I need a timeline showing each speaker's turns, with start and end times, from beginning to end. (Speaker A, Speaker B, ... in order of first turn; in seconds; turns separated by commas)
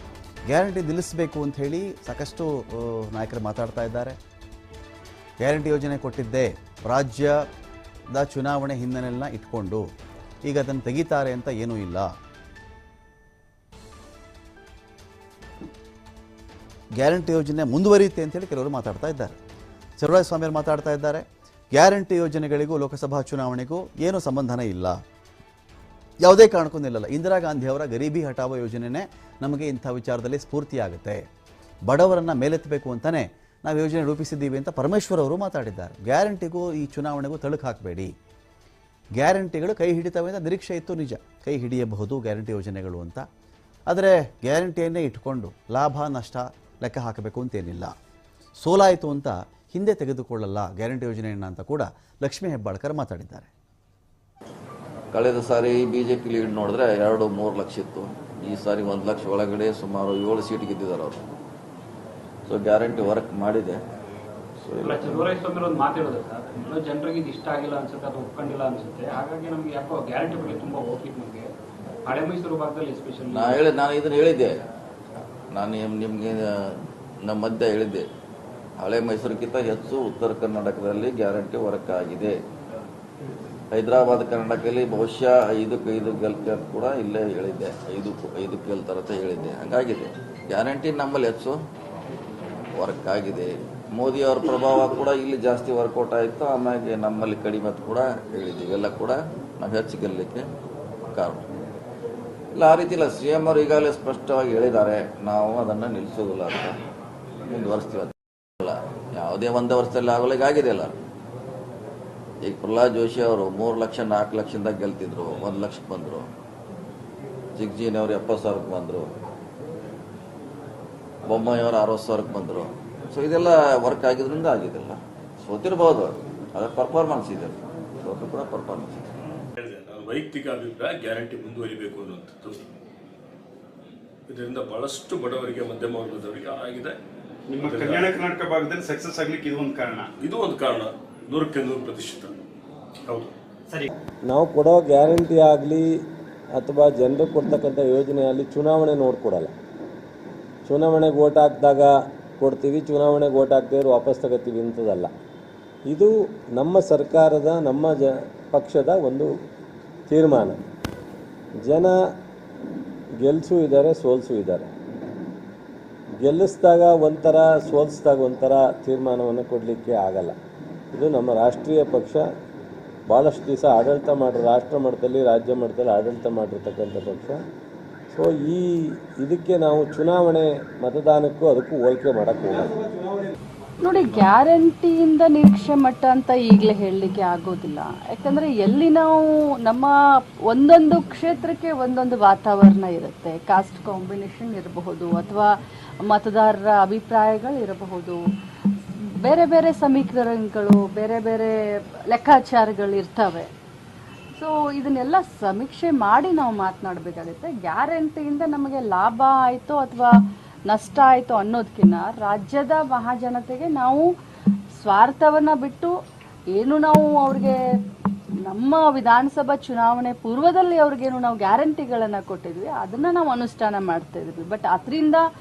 Speaker A: 0.5-4.2, Speaker A: 5.4-7.3, Speaker A: 8.1-9.8, Speaker A: 10.4-12.1, Speaker A: 17.0-19.3, Speaker A: 20.0-24.9, Speaker A: 26.2-31.2, Speaker A: 31.9-38.1, Speaker A: 39.2-43.2, Speaker A: 43.9-47.9, Speaker A: 48.6-53.5, Speaker B: 55.1-61.2, Speaker B: 62.5-63.8, Speaker B: 64.6-65.2, Speaker C: 64.8-71.5, Speaker C: 72.0-73.6, Speaker B: 73.3-74.5, Speaker B: 75.5-78.0, Speaker B: 78.8-82.3, Speaker B: 83.7-91.5, Speaker B: 92.8-100.4, Speaker B: 101.1-101.4, Speaker B: 102.5-106.8, Speaker B: 107.5-110.9, Speaker B: 112.4-116.2, Speaker B: 117.6-119.1, Speaker B: 121.2-129.0, Speaker D: 129.6-132.6, Speaker D: 134.3-137.0, Speaker E: 137.5-140.1, Speaker D: 137.6-138.2, Speaker D: 140.2-142.4, Speaker E: 143.1-143.9, Speaker F: 144.2-145.9, Speaker F: 146.5-149.5, Speaker F: 150.7-155.1, Speaker F: 155.9-159.3, Speaker F: 160.1-160.6, Speaker F: 161.6-161.9, Speaker F: 163.2-164.7, Speaker F: 166.2-170.3, Speaker F: 170.9-172.2, Speaker F: 173.1-177.4, Speaker F: 178.1-183.3, Speaker G: 183.8-189.9, Speaker G: 190.5-195.5, Speaker G: 196.0-198.2, Speaker G: 198.9-203.5, Speaker G: 204.4-210.1, Speaker G: 210.7-214.0, Speaker G: 214.8-215.9, Speaker G: 216.6-217.6, Speaker G: 218.5-225.2